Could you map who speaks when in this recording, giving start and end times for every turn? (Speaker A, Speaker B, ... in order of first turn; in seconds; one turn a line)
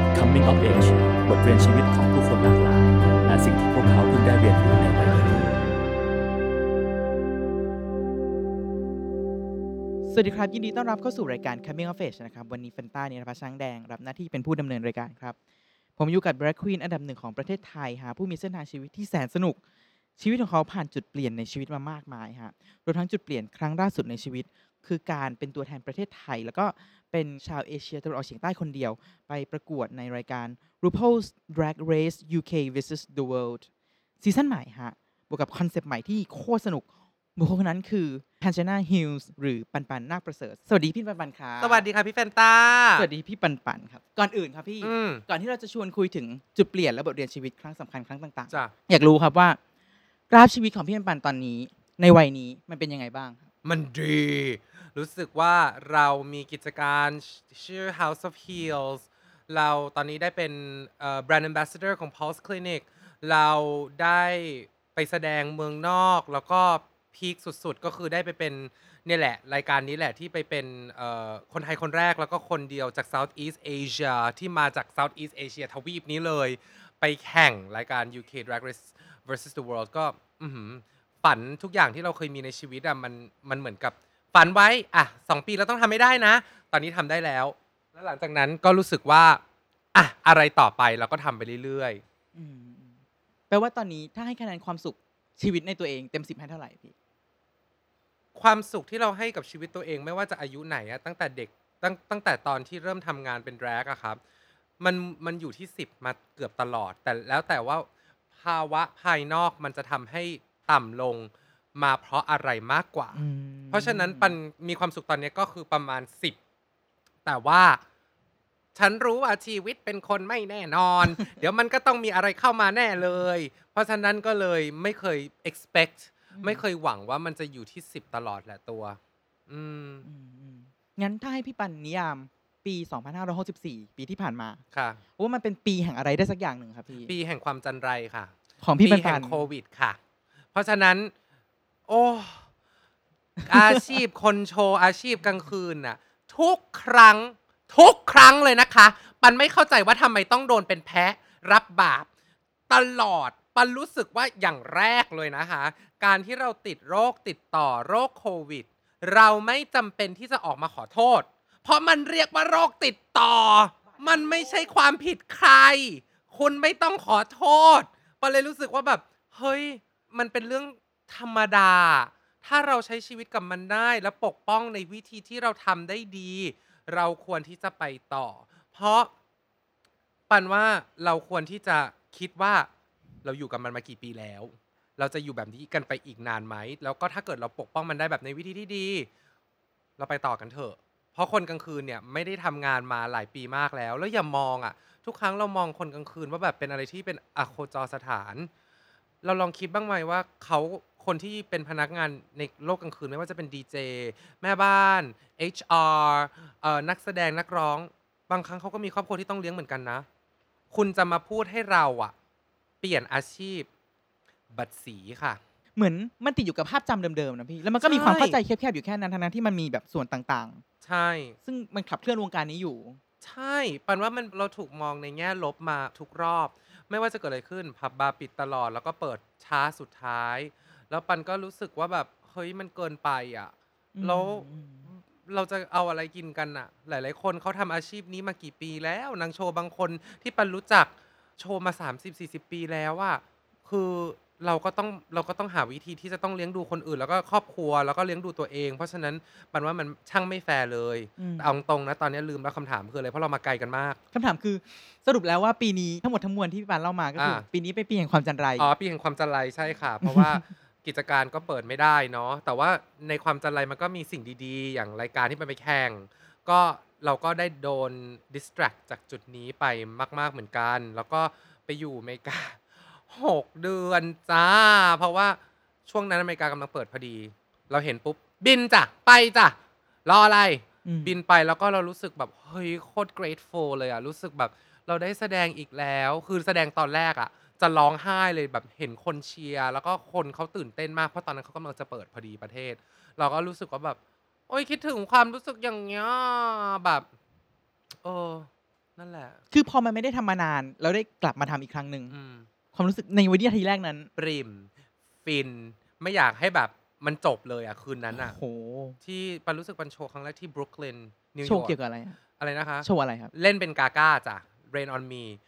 Speaker A: 0.1-5.6
Speaker B: 10.1-15.4
Speaker B: 16.0-19.6
Speaker B: 20.2-33.7
Speaker B: 34.2-41.8
Speaker C: 41.6-43.1
Speaker B: 43.0-49.6
Speaker C: 44.8-45.2
Speaker B: 50.3-53.5
Speaker C: 53.6-89.4
Speaker C: 89.9-92.0
Speaker B: 92.3-96.9
Speaker C: 98.3-104.2
Speaker C: 104.8-116.4
Speaker B: 113.1-114.4
Speaker C: 117.2-117.8
Speaker C: 118.7-130.1
Speaker B: 126.3-126.6
Speaker B: 130.1-134.6
Speaker C: 134.7-135.0
Speaker B: 135.2-137.1
Speaker C: 137.0-140.0
Speaker B: 138.6-139.4
Speaker C: 140.5-141.1
Speaker C: 141.9-142.4
Speaker B: 143.4-144.0
Speaker C: 143.5-152.1
Speaker C: 152.7-179.1
Speaker B: 164.0-164.5
Speaker C: 180.3-182.7
Speaker C: 183.2-189.1
Speaker C: 190.0-198.5
Speaker C: 199.2-210.1
Speaker C: 210.7-212.1
Speaker C: 212.8-213.7
Speaker C: 214.5-215.4
Speaker B: 215.8-220.6
Speaker C: 217.8-218.4
Speaker C: 220.8-221.4
Speaker B: 221.4-223.0
Speaker C: 223.2-254.0
Speaker B: 233.9-234.9
Speaker B: 251.2-251.5
Speaker B: 254.1-258.7
Speaker C: 257.2-257.4
Speaker C: 258.6-294.0
Speaker B: 260.0-260.4
Speaker B: 280.9-281.2
Speaker C: 294.5-297.1
Speaker C: 298.0-299.4
Speaker B: 299.5-302.1
Speaker C: 302.1-302.5
Speaker B: 302.7-304.1
Speaker C: 304.2-304.7
Speaker C: 305.2-308.4
Speaker B: 308.1-309.0
Speaker C: 309.0-311.8
Speaker B: 311.4-312.2
Speaker C: 312.4-315.4
Speaker B: 312.8-313.3